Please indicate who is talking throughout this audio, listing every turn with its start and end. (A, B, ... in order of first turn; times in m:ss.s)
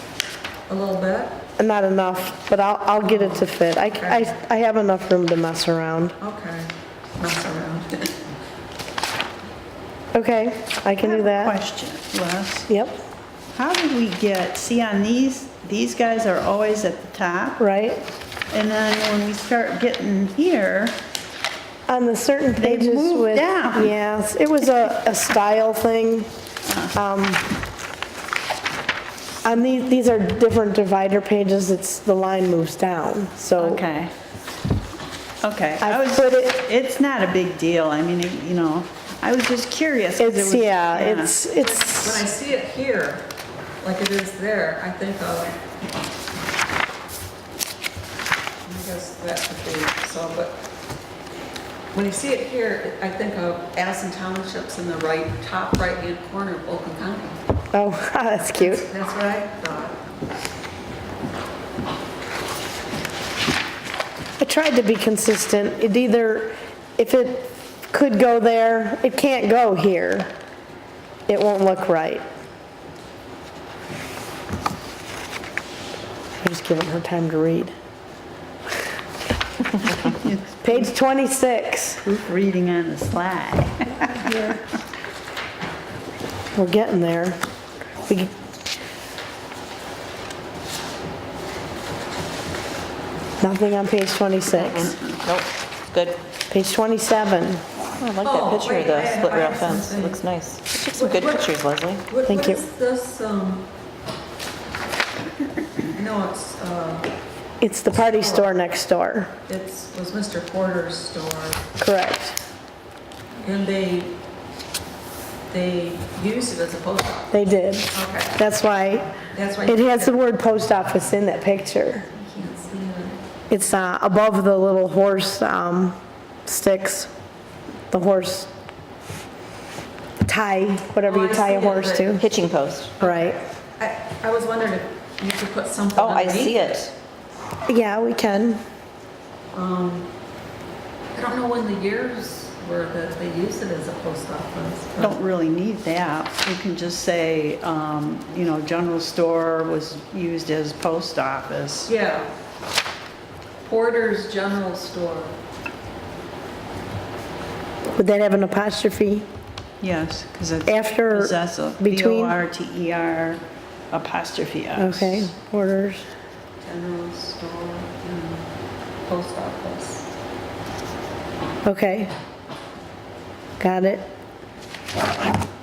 0:00.7-0:01.4 A
0:01.6-0:06.2 B
0:03.0-0:04.4 A
0:06.2-0:08.2 A
0:10.1-0:11.6 B
0:11.0-0:12.7 C
0:12.7-0:13.0 B
0:13.5-0:17.6 C
0:17.6-0:18.0 B
0:18.5-0:21.0 C
0:21.9-0:26.3 B
0:22.6-0:24.0 C
0:26.6-0:27.0 C
0:26.9-0:27.4 B
0:29.4-0:33.8 B
0:33.6-0:34.1 C
0:35.4-0:41.4 C
0:35.8-0:36.6 B
0:40.2-0:42.3 B
0:41.6-0:43.2 A
0:43.8-0:45.6 A
0:48.6-0:50.6 A
0:51.9-0:57.4 A
0:57.7-0:58.8 B
0:58.6-1:00.1 A
1:04.4-1:10.3 B
1:11.3-1:12.2 B
1:16.4-1:17.7 B
1:20.0-1:20.9 C
1:20.6-1:22.0 B
1:22.0-1:24.6 C
1:24.1-1:24.6 B
1:26.5-1:27.4 B
1:28.0-1:28.3 B
1:33.4-1:34.9 B
1:34.5-1:36.2 D
1:36.5-1:37.6 B
1:38.0-1:42.0 D
1:38.2-1:40.2 A
1:40.9-1:41.5 A
1:42.1-1:43.7 A
1:42.2-1:42.6 B
1:45.9-1:47.1 A
1:47.6-1:49.3 B
1:47.9-1:48.6 A
1:49.5-1:51.6 A
1:51.8-1:52.4 B
1:53.4-1:54.1 A
1:55.5-1:57.3 A
1:57.3-1:59.1 B
1:57.9-1:58.4 A
1:59.3-2:00.2 A
1:59.7-2:02.0 B
2:02.1-2:03.2 A
2:03.5-2:07.1 B
2:07.9-2:08.5 B
2:10.2-2:12.2 B
2:11.0-2:12.2 A
2:12.2-2:12.9 D
2:13.0-2:13.4 B
2:13.0-2:16.7 A
2:16.0-2:16.9 D
2:17.7-2:18.6 B
2:19.5-2:20.1 A
2:21.1-2:25.2 A
2:25.0-2:31.9 C
2:31.9-2:32.3 A
2:33.6-2:35.3 A
2:38.0-2:39.2 B
2:39.8-2:45.3 C
2:40.7-2:42.4 B
2:44.8-2:46.0 B
2:46.6-2:48.4 A
2:49.0-2:50.1 A
2:51.6-2:52.1 B
2:53.6-2:54.1 B